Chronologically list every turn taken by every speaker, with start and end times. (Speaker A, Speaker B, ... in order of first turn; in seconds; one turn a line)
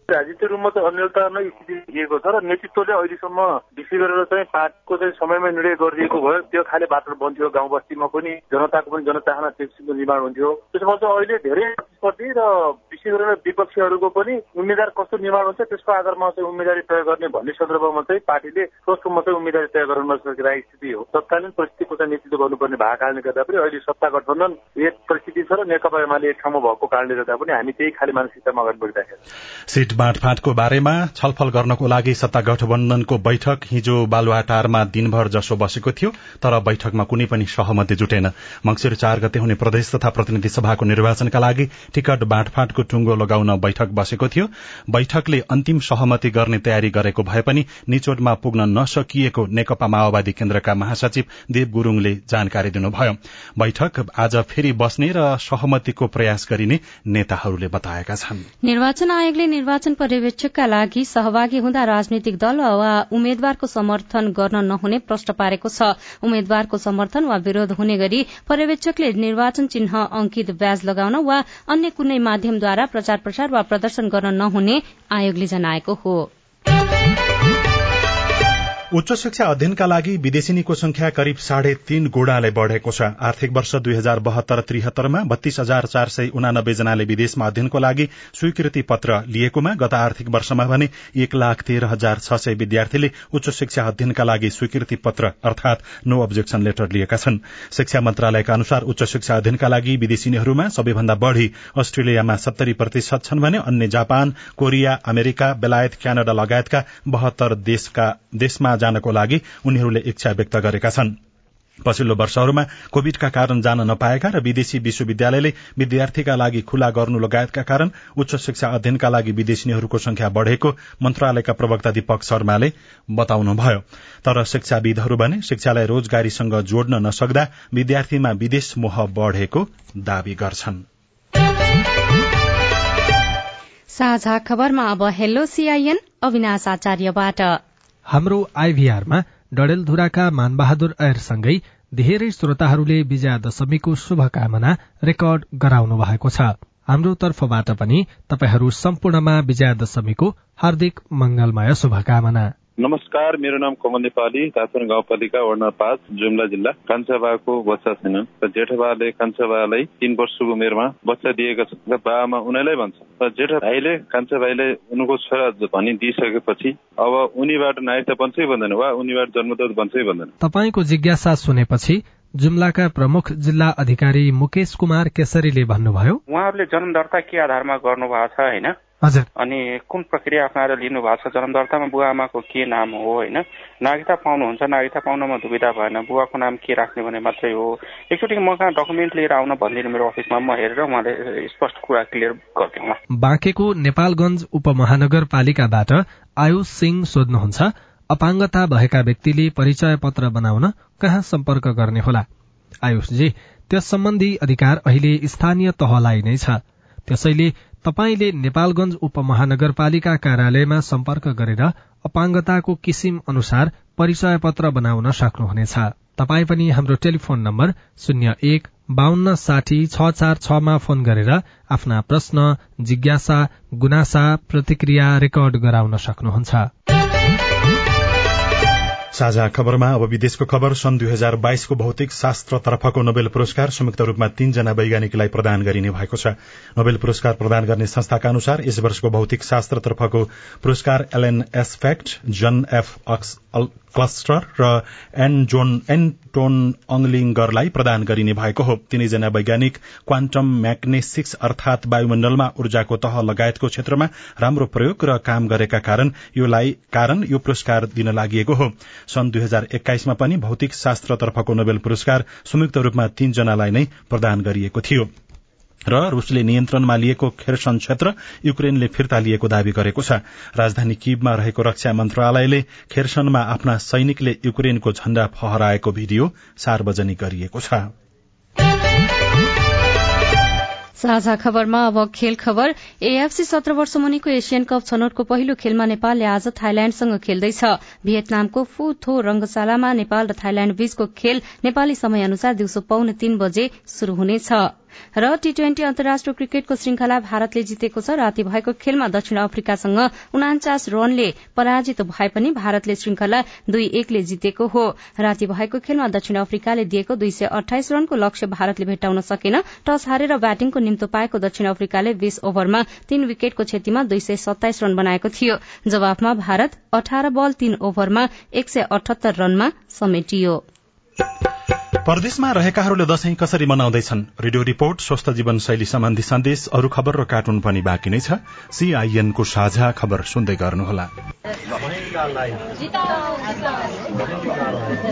Speaker A: 0.1-29.2
Speaker B: 29.7-58.5
Speaker C: 58.6-76.3
Speaker B: 78.9-111.1
Speaker B: 111.8-130.8
Speaker C: 133.9-137.6
Speaker D: 138.1-152.5
Speaker E: 152.8-170.3
Speaker D: 170.4-176.2
Speaker F: 176.3-178.8
Speaker F: 179.3-193.0
Speaker D: 193.2-202.2
Speaker D: 202.8-226.7
Speaker B: 229.1-265.1
Speaker B: 265.9-277.9
Speaker C: 281.0-320.6
Speaker B: 322.0-331.1